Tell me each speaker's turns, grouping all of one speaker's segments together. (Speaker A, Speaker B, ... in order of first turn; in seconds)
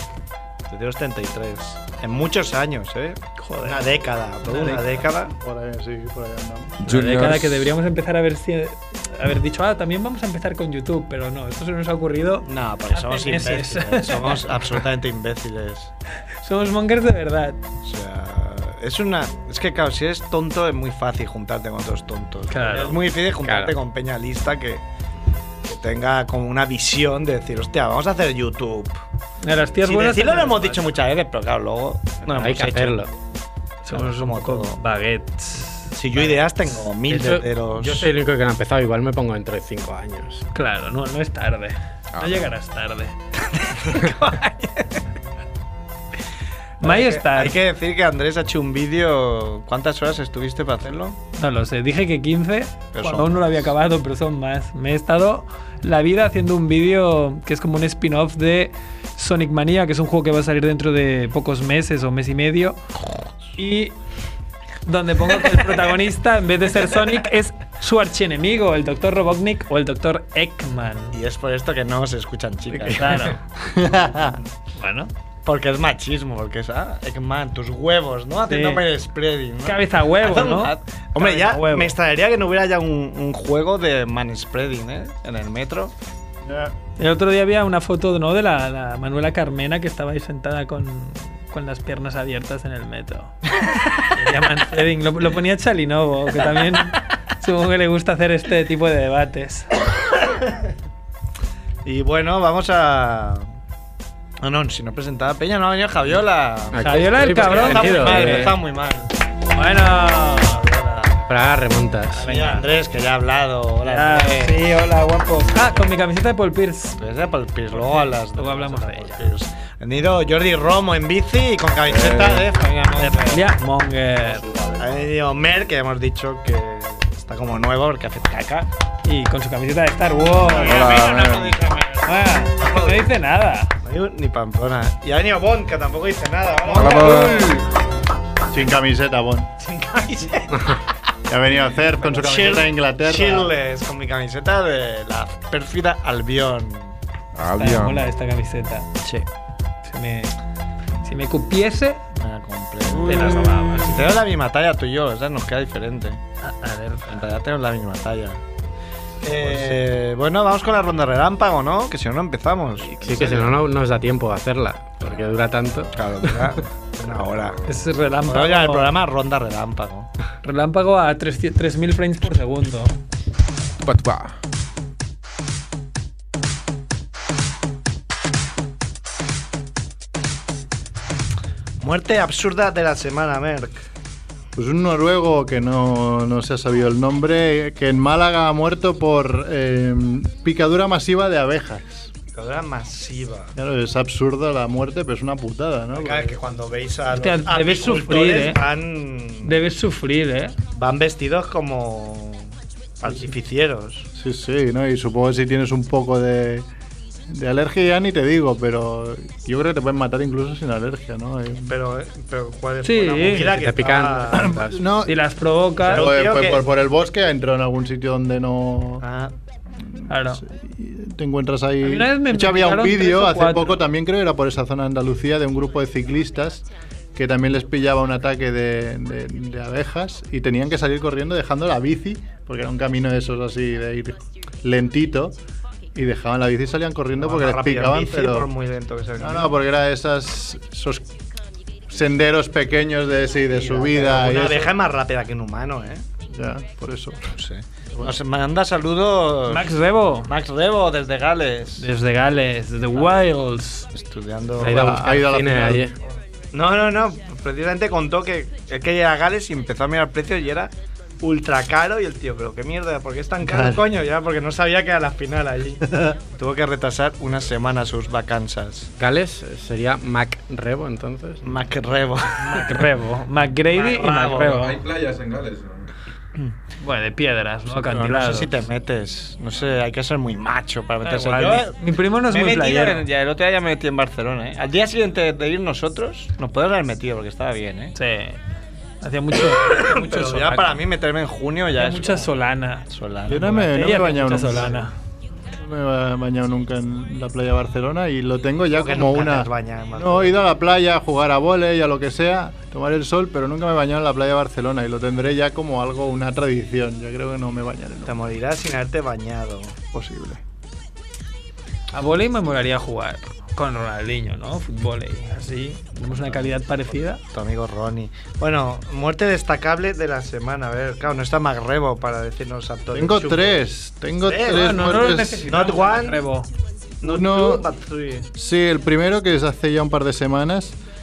Speaker A: 0.7-5.3, 12.4-15.9, 17.8-24.8, 25.6-29.0, 29.8-33.1, 33.9-34.8, 35.9-38.1, 43.5-45.0, 46.8-51.2, 52.9-53.7, 71.1-73.2, 75.5-85.9, 101.8-103.5, 104.4-109.1, 110.4-111.2, 112.2-114.6, 117.0-123.5, 124.6-128.7, 130.4-133.1, 133.8-137.3, 139.6-140.6, 142.1-147.0, 152.2-156.2, 157.1-158.4, 159.2-163.6, 165.9-167.6, 168.3-170.1, 181.8-183.8, 192.3-193.5, 195.9-199.6, 200.7-204.1, 211.7-214.6, 215.9-216.7, 219.0-219.3, 237.2-239.5, 243.5-246.1, 247.3-249.7, 250.2-251.9, 253.9-254.9, 256.5-268.9, 271.4-272.8, 273.7-274.6, 277.7-287.9, 289.5-292.3, 292.9-293.6, 294.5-294.8, 298.7-300.4, 308.1-309.8, 317.2-323.6, 324.2-324.8, 325.5-326.2, 327.0-328.3
Speaker B: 3.4-5.0, 6.9-14.8, 16.4-17.6, 22.5-23.0, 29.4-30.9, 33.8-36.4, 40.5-43.1, 46.8-47.6, 51.4-62.8, 63.6-64.0, 64.9-71.2, 72.9-73.4, 74.8-75.1, 78.5-78.8, 79.6-81.9, 87.0-93.5, 94.0-99.7, 106.8-108.5, 109.5-110.6, 112.3-112.6, 113.8-117.0, 117.7-119.3, 123.0-124.4, 129.1-131.2, 132.0-133.7, 136.7-137.7, 147.5-148.9, 149.8-150.3, 151.0-152.0, 153.0-154.1, 156.4-157.3, 167.7-168.9, 170.4-172.9, 197.1-198.6, 199.4-200.6, 212.8-213.5, 215.0-216.1, 220.1-220.4, 221.8-223.8, 249.5-250.3, 251.8-253.9, 272.5-274.8, 276.8-278.6, 281.0-283.1, 288.0-288.4, 289.0-290.8, 291.7-294.9, 311.9-317.2, 324.4-326.5
Speaker C: 5.2-7.1, 73.6-74.4, 86.4-86.8, 138.5-139.5, 141.3-143.5, 184.6-192.1, 193.6-196.4, 204.2-206.7, 207.3-211.7, 214.3-215.2, 215.8-219.0, 219.8-235.4, 235.9-238.5, 239.2-241.1, 241.9-244.8, 246.3-247.3, 247.9-248.2, 254.6-255.9, 263.4-263.8, 265.9-266.1, 293.3-294.8, 295.5-308.2, 309.9-310.4, 322.9-325.5, 327.0-327.7, 328.3-330.8
Speaker D: 6.8-7.7, 42.1-42.5, 121.9-122.5, 130.5-131.6, 136.8-137.6, 147.3-148.1, 173.8-174.4, 274.1-275.9
Speaker E: 23.4-23.8, 32.3-33.1, 37.1-40.4, 106.7-108.6, 111.3-112.6, 162.9-166.6, 213.5-214.8, 254.6-255.9, 269.0-271.5